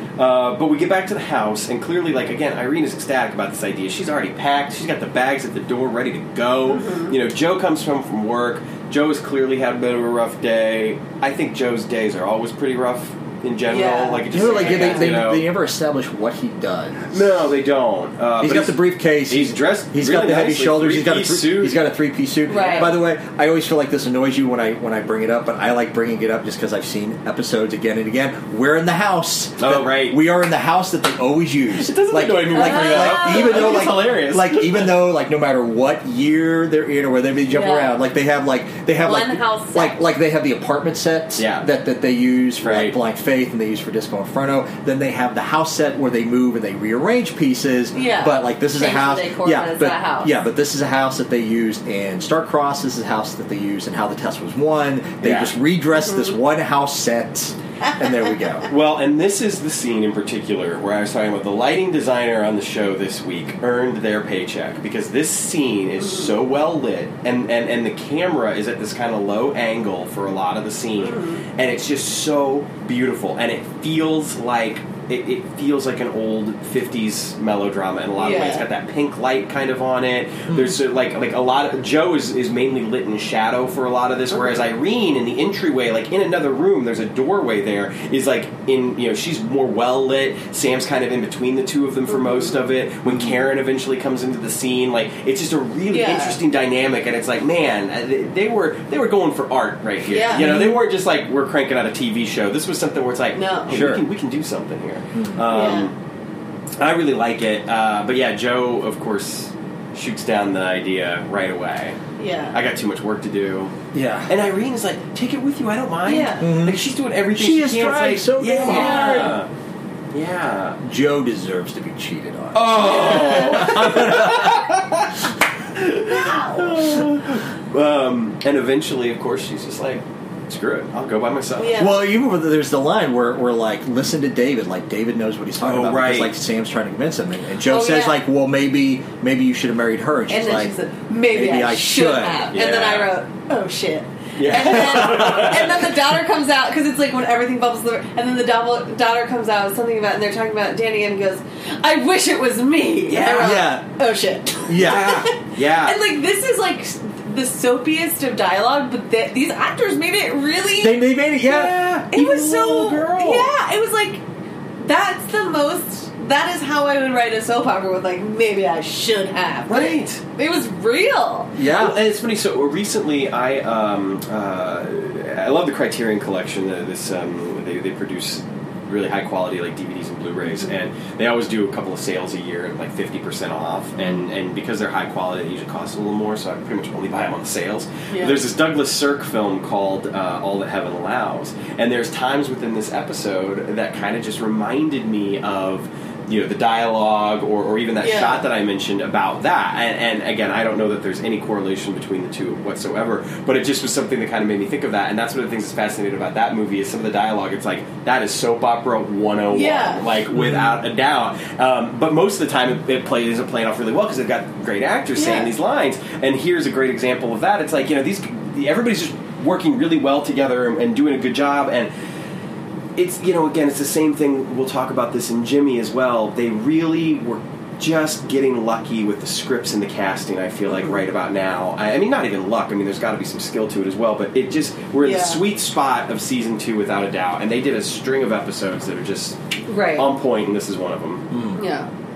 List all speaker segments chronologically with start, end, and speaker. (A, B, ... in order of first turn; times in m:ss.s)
0:00.2-0:15.5 A
0:06.7-0:07.1 B
0:13.7-0:15.2 B
0:14.3-0:17.2 C
0:17.1-0:21.8 A
0:18.4-0:58.7 C
0:22.5-0:23.0 B
0:22.5-0:23.0 A
0:29.6-0:30.2 A
0:31.7-0:35.0 A
0:32.5-0:33.8 B
0:37.5-0:37.9 B
0:39.0-0:40.0 B
0:41.4-0:41.6 A
0:42.6-0:43.0 A
0:47.9-0:50.3 B
0:55.2-0:55.5 A
0:56.0-0:56.3 B
0:58.7-1:45.9 A
1:06.0-1:06.3 B
1:11.0-1:11.4 B
1:18.2-1:18.6 B
1:20.5-1:20.8 C
1:32.1-1:32.5 B
1:33.1-1:33.4 C
1:35.9-1:36.4 B
1:40.1-1:40.7 B
1:40.3-1:40.8 C
1:43.3-1:43.8 B
1:43.7-1:44.0 C
1:45.5-1:45.9 B
1:46.8-1:52.0 A
1:52.2-1:52.6 B
1:52.5-1:53.7 A
1:53.9-1:54.3 C
1:54.3-1:59.5 A
1:56.0-1:56.5 B
1:56.4-1:59.4 C
1:58.6-1:59.4 B
2:00.1-2:00.8 A
2:00.8-2:04.6 C
2:02.5-2:11.9 A
2:03.1-2:03.7 B
2:06.0-2:06.8 B
2:11.6-2:12.0 B
2:11.8-2:20.7 C
2:15.6-2:16.3 A
2:17.7-2:18.2 B
2:20.3-2:41.1 B
2:21.3-2:22.5 C
2:22.5-2:23.1 A
2:24.4-2:25.9 A
2:24.5-2:25.6 C
2:33.1-2:33.7 A
2:33.2-2:33.9 C
2:34.6-2:35.2 C
2:34.7-2:36.0 A
2:40.8-2:41.9 C
2:41.4-2:43.5 A
2:42.1-2:44.2 B
2:44.8-2:51.6 B
2:49.7-2:50.2 A
2:51.6-2:52.0 C
2:51.6-3:41.9 A
3:08.1-3:08.4 B
3:18.0-3:18.4 B
3:29.5-3:30.0 B
3:30.3-3:30.8 C
3:35.2-3:35.5 B
3:43.0-3:59.4 A
3:55.0-3:55.4 B
3:59.7-4:00.1 B
3:59.9-4:01.3 A
4:01.3-4:01.6 C
4:01.6-4:01.9 B